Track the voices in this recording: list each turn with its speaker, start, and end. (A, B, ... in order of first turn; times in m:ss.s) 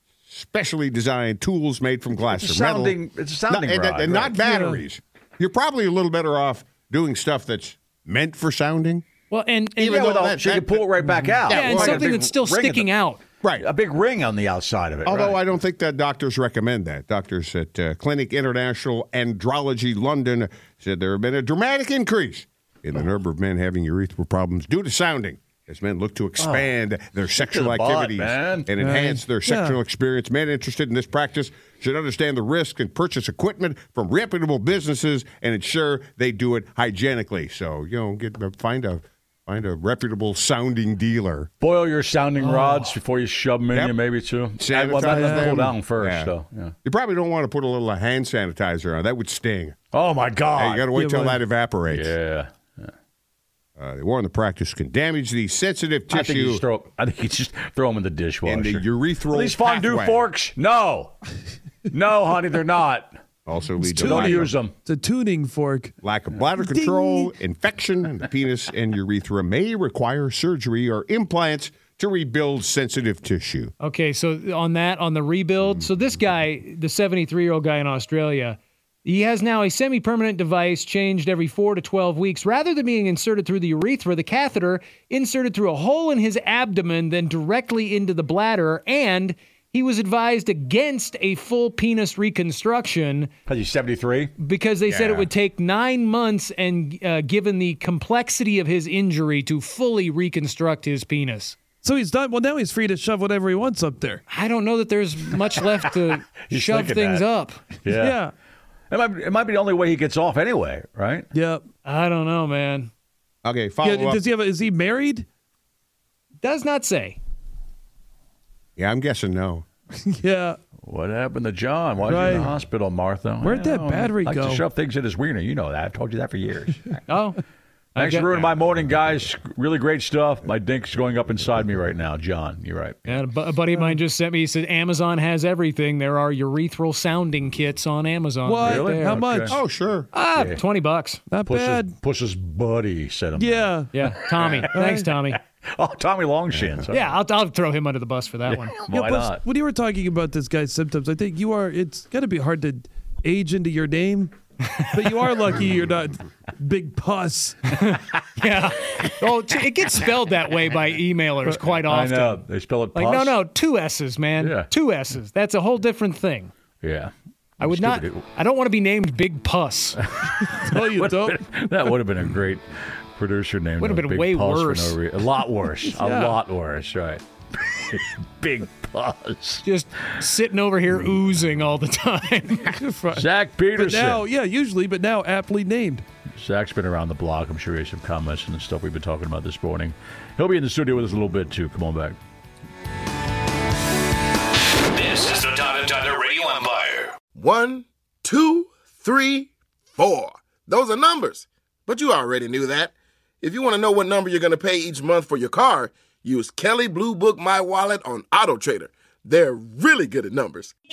0:00.3-0:03.0 A
0:02.3-0:04.4 B
0:03.5-0:09.1 A
0:04.4-0:04.8 C
0:09.3-0:10.2 D
0:09.8-0:10.8 A
0:09.8-0:12.9 B
0:11.5-0:12.1 A
0:11.5-0:13.2 D
0:13.6-0:15.5 B
0:15.0-0:41.5 A
0:26.4-0:26.8 B
0:27.3-0:28.7 B
0:28.8-0:29.8 C
0:41.6-0:46.7 B
0:42.4-0:42.9 D
0:43.7-0:44.0 A
0:44.6-0:46.3 A
0:45.1-0:45.6 C
0:46.8-0:49.8 A
0:49.9-0:50.9 B
0:50.5-0:52.2 A
0:50.9-0:51.4 C
0:51.9-0:52.9 B
0:53.8-0:56.6 A
0:56.1-1:01.2 B
0:58.4-1:00.3 A
1:01.9-1:03.2 B
1:03.5-1:04.6 A
1:03.8-1:05.9 C
1:04.0-1:04.7 B
1:06.0-1:13.7 A
1:06.6-1:07.3 C
1:13.8-1:33.3 D
1:33.5-1:34.3 B
1:34.4-1:41.6 D
1:34.9-1:35.3 A
1:41.8-1:44.2 C
1:44.3-1:47.6 D
1:46.5-1:47.2 B
1:47.8-1:48.2 B
1:48.0-1:48.3 C
1:48.9-1:51.3 B
1:51.3-1:51.6 C
1:51.8-1:52.9 D
1:53.4-1:54.2 A
1:53.8-1:55.3 C
1:56.4-1:57.2 D
1:58.8-1:59.6 A
2:00.1-2:00.6 C
2:00.8-2:07.0 B
2:02.1-2:02.5 C
2:03.4-2:04.6 C
2:07.1-2:07.4 D
2:08.0-2:08.5 D
2:08.0-2:13.2 B
2:13.1-2:19.2 D
2:18.5-2:19.6 C
2:18.6-2:19.6 B
2:19.5-2:20.1 A
2:20.1-2:21.2 D
2:20.4-2:20.6 B
2:21.3-2:21.9 C
2:21.4-2:24.7 B
2:23.4-2:23.9 C
2:23.9-2:25.4 D
2:24.7-2:25.1 C
2:25.3-2:27.2 B
2:26.5-2:26.9 A
2:26.9-2:28.7 D
2:28.5-2:29.4 B
2:28.9-2:34.3 C
2:34.7-2:35.1 D
2:34.9-2:37.6 C
2:37.7-2:42.4 D
2:41.8-2:43.4 B
2:42.9-2:46.5 D
2:44.4-2:44.7 B
2:46.8-2:48.2 B
2:47.6-2:50.1 D
2:50.2-2:59.7 B
2:50.6-2:51.4 C
2:53.8-2:55.0 D
2:55.8-2:56.4 C
2:59.6-3:02.8 D
3:02.7-3:06.0 C
3:03.1-3:04.2 B
3:06.4-3:12.2 B
3:14.9-3:17.1 E
3:17.3-3:30.7 F